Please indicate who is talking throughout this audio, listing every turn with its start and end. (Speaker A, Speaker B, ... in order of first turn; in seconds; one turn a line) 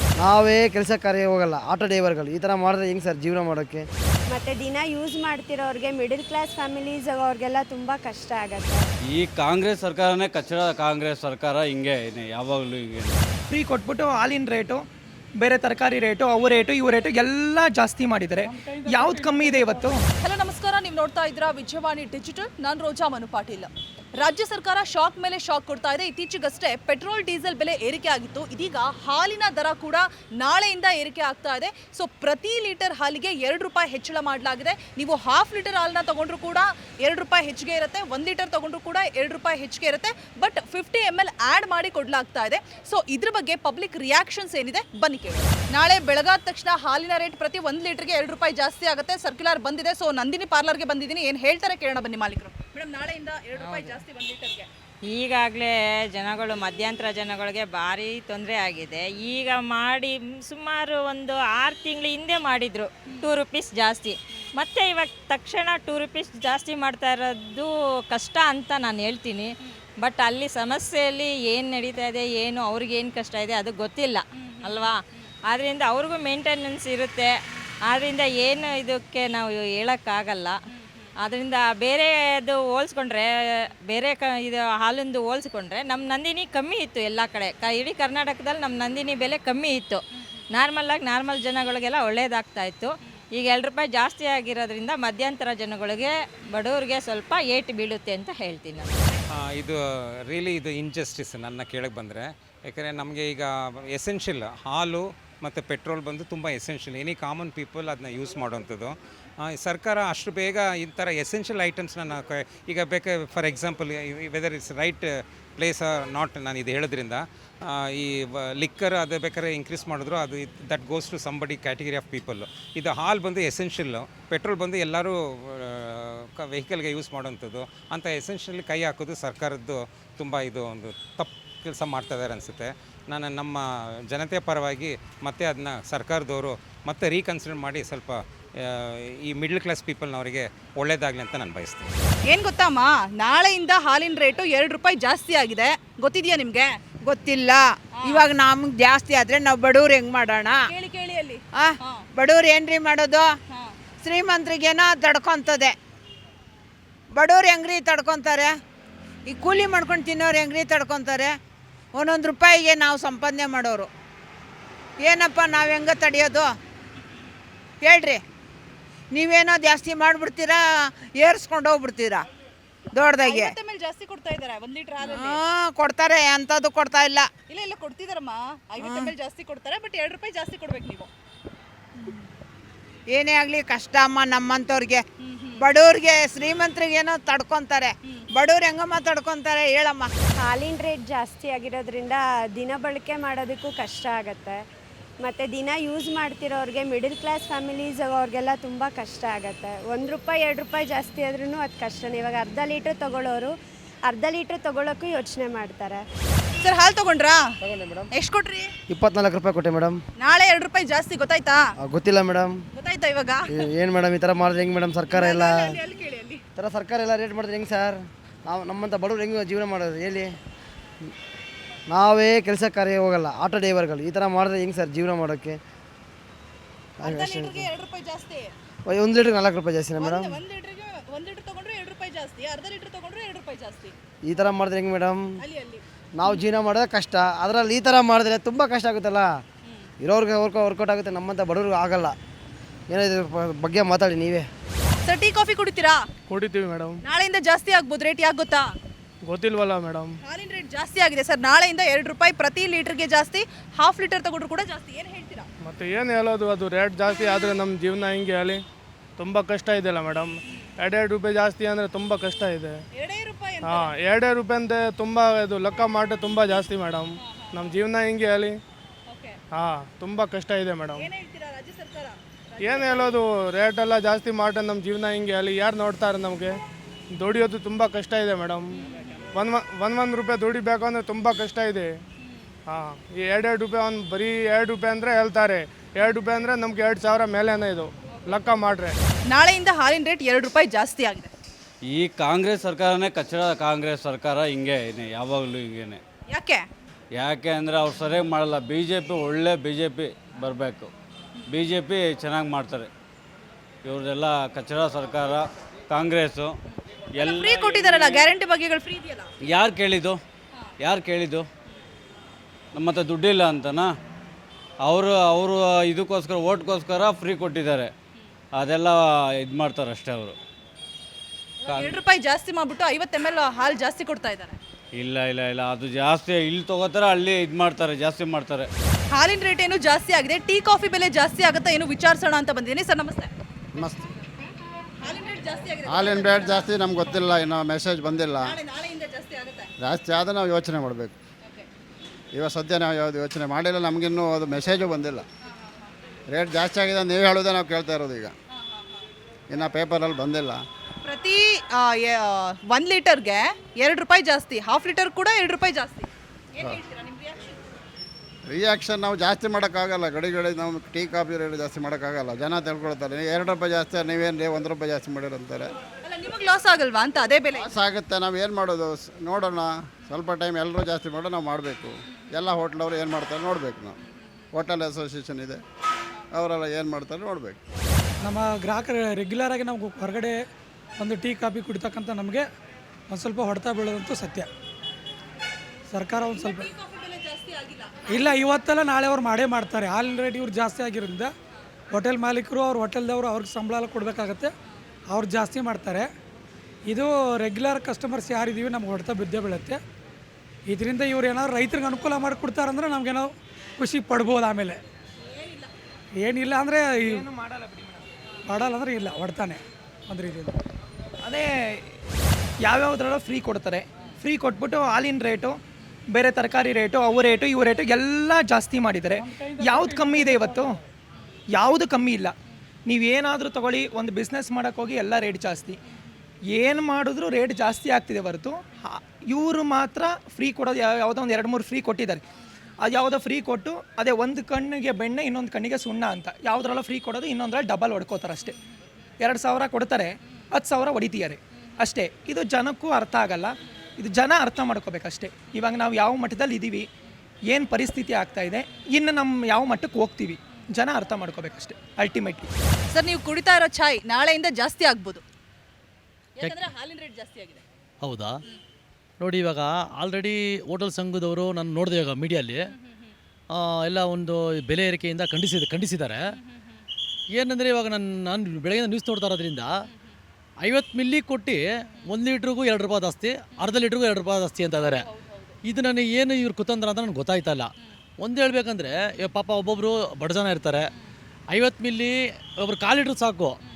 Speaker A: 0.2-3.8
Speaker B: 4.3-8.8
Speaker C: 9.1-13.2
Speaker D: 13.5-14.8
Speaker D: 15.4-20.0
Speaker E: 18.4-20.0
Speaker F: 20.2-54.7
Speaker G: 53.6-54.0
Speaker G: 55.1-77.3
Speaker G: 77.9-80.6
Speaker G: 81.2-99.2
Speaker H: 99.3-141.9
Speaker F: 142.3-146.7
Speaker I: 147.0-150.6
Speaker F: 148.0-148.3
Speaker F: 150.7-152.0
Speaker I: 151.6-153.3
Speaker I: 154.0-155.7
Speaker I: 157.1-158.5
Speaker I: 159.3-161.3
Speaker I: 161.9-163.9
Speaker I: 165.0-166.5
Speaker I: 167.8-168.2
Speaker I: 169.1-172.2
Speaker I: 172.9-173.5
Speaker F: 173.1-175.4
Speaker I: 175.0-177.3
Speaker F: 177.5-181.1
Speaker I: 178.8-179.1
Speaker I: 183.1-185.0
Speaker I: 185.6-190.1
Speaker B: 190.4-194.6
Speaker B: 195.2-203.5
Speaker B: 204.0-206.0
Speaker F: 206.6-207.4
Speaker A: 207.6-208.1
Speaker F: 208.1-208.7
Speaker A: 208.9-210.0
Speaker F: 210.2-211.6
Speaker A: 211.8-212.5
Speaker F: 212.7-213.5
Speaker A: 213.5-215.7
Speaker F: 215.1-216.4
Speaker A: 216.6-220.3
Speaker A: 221.9-225.6
Speaker A: 227.0-227.7
Speaker F: 227.0-228.5
Speaker A: 228.9-230.4
Speaker F: 230.0-233.9
Speaker A: 234.2-235.4
Speaker F: 235.4-236.4
Speaker A: 236.2-239.3
Speaker A: 240.0-242.1
Speaker A: 242.9-244.5
Speaker F: 244.9-246.1
Speaker J: 246.3-247.0
Speaker F: 247.0-248.7
Speaker J: 249.2-250.1
Speaker F: 250.2-255.5
Speaker J: 255.6-258.6
Speaker J: 259.2-262.7
Speaker F: 262.9-263.9
Speaker J: 263.6-268.6
Speaker F: 267.3-267.8
Speaker F: 269.1-269.4
Speaker J: 269.5-271.1
Speaker F: 270.9-273.1
Speaker J: 272.6-276.5
Speaker J: 277.1-278.6
Speaker F: 278.8-279.2
Speaker J: 279.4-281.9
Speaker J: 282.7-288.9
Speaker F: 289.3-291.3
Speaker C: 291.9-296.0
Speaker F: 296.3-296.6
Speaker C: 297.1-300.9
Speaker C: 301.5-302.9
Speaker C: 303.9-306.5
Speaker F: 307.2-309.3
Speaker C: 307.2-307.9
Speaker C: 309.5-310.2
Speaker C: 310.8-311.4
Speaker C: 312.7-313.9
Speaker C: 314.8-317.9
Speaker C: 318.6-320.3
Speaker F: 321.6-324.6
Speaker C: 324.9-328.7
Speaker F: 329.1-333.3
Speaker F: 335.0-336.7
Speaker K: 335.9-338.5
Speaker F: 338.4-339.7
Speaker K: 339.8-341.1
Speaker K: 342.3-345.2
Speaker K: 346.3-348.3
Speaker K: 349.5-350.6
Speaker F: 351.0-357.6
Speaker K: 358.5-365.7
Speaker F: 366.1-367.8
Speaker K: 367.5-373.9
Speaker K: 374.5-375.6
Speaker K: 376.3-377.6
Speaker E: 378.2-380.4
Speaker E: 381.0-382.4
Speaker E: 383.1-384.5
Speaker E: 385.9-386.7
Speaker F: 386.3-388.3
Speaker E: 388.1-391.3
Speaker E: 391.9-394.5
Speaker E: 395.1-396.1
Speaker E: 396.9-399.8
Speaker E: 400.7-404.8
Speaker E: 406.2-407.2
Speaker D: 407.0-408.0
Speaker E: 408.5-410.6
Speaker D: 411.2-411.9
Speaker D: 412.6-420.8
Speaker E: 419.2-420.7
Speaker D: 421.5-422.3
Speaker D: 422.9-425.8
Speaker D: 426.5-432.2
Speaker D: 432.8-438.5
Speaker D: 439.2-446.9
Speaker D: 447.5-452.5
Speaker F: 452.9-455.2
Speaker F: 456.4-457.6
Speaker L: 456.4-456.7
Speaker L: 458.0-458.3
Speaker L: 459.2-462.7
Speaker F: 462.7-463.1
Speaker L: 463.5-466.4
Speaker L: 467.3-469.9
Speaker L: 470.6-475.1
Speaker F: 474.8-475.5
Speaker L: 475.6-480.9
Speaker L: 481.5-483.6